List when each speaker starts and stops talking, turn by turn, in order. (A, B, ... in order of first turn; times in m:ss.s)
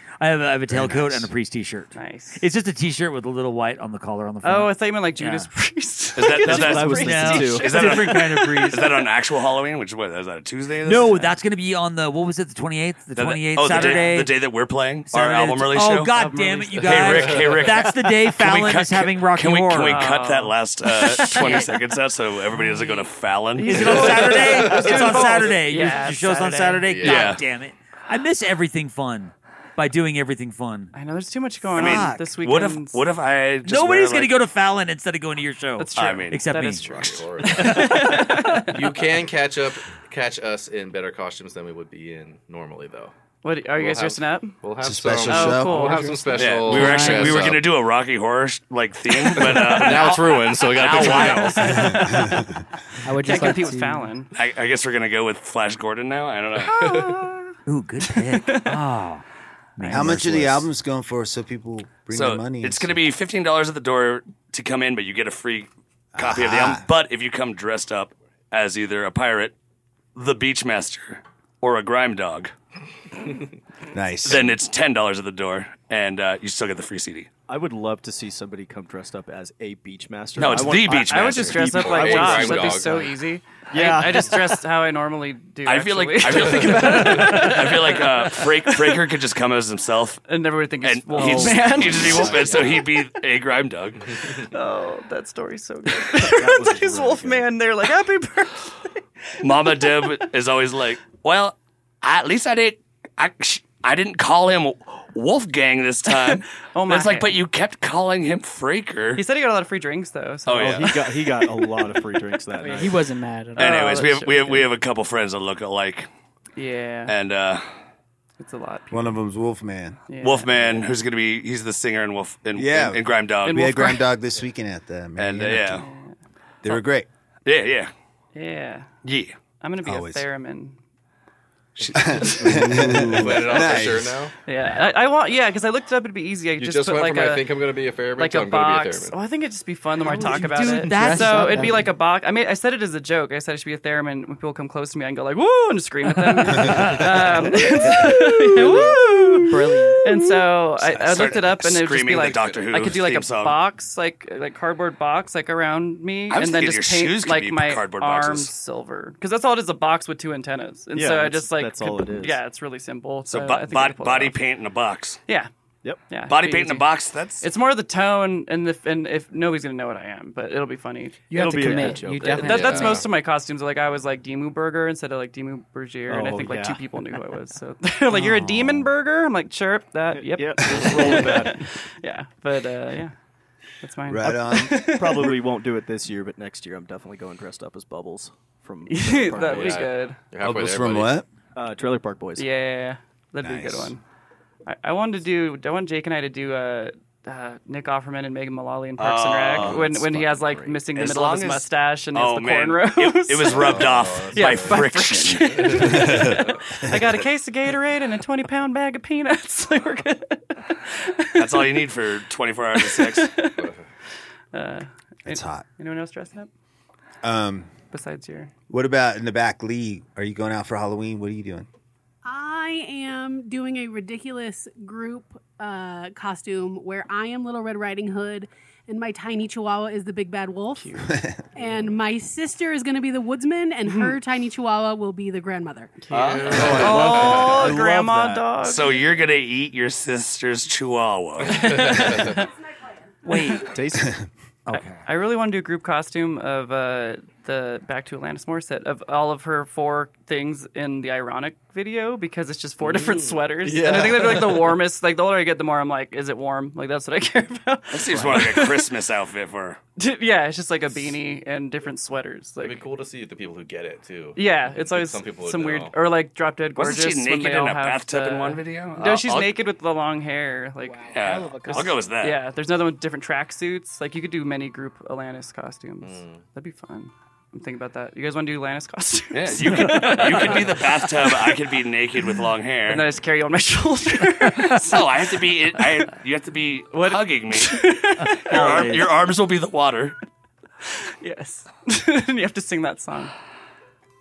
0:00.2-0:05.5 A
0:00.7-0:01.3 B
0:02.0-0:02.4 C
0:04.4-0:08.7 C
0:06.2-0:11.3 D
0:06.4-0:07.8 E
0:06.9-0:09.0 A
0:10.8-0:14.4 A
0:13.2-0:16.1 D
0:15.1-0:20.1 A
0:16.1-0:17.1 C
0:16.8-0:24.4 D
0:19.8-0:21.7 C
0:21.0-0:21.7 A
0:22.6-0:27.3 C
0:23.6-0:30.9 A
0:24.4-0:25.3 F
0:26.9-0:27.4 F
0:27.0-0:27.4 D
0:30.9-0:33.0 C
0:31.7-0:32.3 A
0:31.8-0:34.3 D
0:33.6-0:38.6 A
0:35.8-0:38.9 C
0:36.0-0:36.4 D
0:36.8-0:38.2 F
0:38.7-0:43.1 F
0:43.4-0:44.6 C
0:43.8-0:47.7 F
0:44.8-0:46.0 B
0:45.2-0:47.4 C
0:46.4-0:52.0 D
0:46.7-0:47.4 G
0:49.3-0:51.6 F
0:50.8-0:52.5 C
0:51.9-0:52.6 B
0:53.0-0:54.1 G
0:53.2-0:54.3 C
0:54.3-0:56.9 D
0:56.6-0:57.5 C
0:57.7-0:59.2 A
0:58.3-0:58.8 C
0:59.8-1:00.7 A
0:59.9-1:03.0 B
1:02.1-1:09.5 D
1:06.2-1:06.8 B
1:10.2-1:12.5 D
1:13.9-1:14.6 B
1:14.2-1:17.3 D
1:17.5-1:23.1 E
1:20.4-1:21.7 D
1:20.9-1:29.0 C
1:21.6-1:23.1 F
1:23.7-1:24.6 E
1:25.7-1:30.2 D
1:30.3-1:32.8 C
1:30.8-1:34.1 D
1:31.1-1:32.8 E
1:34.4-1:40.1 C
1:36.1-1:37.5 E
1:39.4-1:49.2 D
1:46.1-1:47.4 C
1:49.2-1:51.1 C
1:50.5-1:51.3 D
1:50.5-1:53.1 E
1:52.6-1:54.0 G
1:52.6-1:52.9 C
1:53.6-1:54.7 C
1:53.6-1:56.1 D
1:56.6-1:57.1 C
1:57.1-1:57.7 D
1:58.4-1:59.2 C
1:58.9-2:00.0 B
2:00.1-2:00.9 C
2:00.2-2:03.7 D
2:02.6-2:05.9 B
2:03.5-2:04.1 C
2:05.2-2:05.9 D
2:05.8-2:06.2 C
2:06.6-2:07.1 B
2:07.5-2:07.9 D
2:08.4-2:08.9 C
2:09.0-2:09.3 D
2:09.6-2:10.8 C
2:09.8-2:10.2 B
2:11.8-2:12.6 D
2:11.9-2:14.3 B
2:13.1-2:14.3 F
2:14.5-2:17.6 C
2:16.6-2:19.2 F
2:18.2-2:44.4 C
2:20.1-2:21.9 G
2:20.1-2:21.8 A
2:26.3-2:27.1 A
2:27.6-2:30.3 G
2:30.8-2:33.6 D
2:32.1-2:32.7 F
2:36.3-2:38.5 D
2:40.9-2:42.4 E
2:43.3-2:45.2 D
2:46.1-3:03.1 C
2:46.3-2:47.4 D
2:51.3-2:53.0 G
2:51.3-2:52.9 E
2:52.4-2:53.1 F
2:56.1-2:57.2 E
2:58.1-2:58.9 A
3:00.1-3:01.7 E
3:03.8-3:05.3 C
3:04.1-3:05.0 B
3:04.7-3:09.9 E
3:08.9-3:10.2 C
3:09.3-3:11.2 F
3:10.4-3:11.3 B
3:11.6-3:12.5 E
3:12.4-3:14.0 C
3:13.4-3:14.0 B
3:14.7-3:31.8 C
3:19.0-3:19.8 D
3:19.6-3:20.2 F
3:19.8-3:20.8 E
3:20.9-3:26.0 D
3:23.5-3:24.8 F
3:25.5-3:26.6 F
3:25.9-3:27.0 B
3:31.4-3:33.3 D
3:32.8-3:33.7 C
3:33.6-3:33.8 F
3:34.5-3:36.5 C
3:35.3-3:35.7 B
3:37.2-3:37.7 B
3:37.9-3:38.5 C
3:38.7-3:41.7 B
3:42.2-3:50.9 H
3:50.7-3:51.1 C
3:51.0-3:51.5 B
3:51.6-3:56.0 H
3:53.9-3:54.2 C
3:56.0-3:59.0 C
3:56.1-3:57.6 F
3:56.2-3:58.4 E
3:58.6-4:02.2 D
4:01.5-4:02.5 C
4:03.2-4:03.7 A
4:03.3-4:03.7 C
4:03.6-4:04.2 E
4:04.7-4:05.0 A
4:04.7-4:18.9 C
4:12.8-4:14.8 F
4:17.9-4:19.8 D
4:20.0-4:22.8 C
4:22.6-4:26.0 F
4:24.4-4:41.5 C
4:26.8-4:29.6 D
4:30.8-4:32.1 G
4:31.1-4:32.4 D
4:36.0-4:36.4 F
4:39.3-4:43.1 D
4:42.9-4:45.1 C
4:44.7-4:47.9 D
4:46.9-4:49.1 C
4:48.4-4:49.1 A
4:48.5-4:50.2 D
4:50.9-4:53.3 C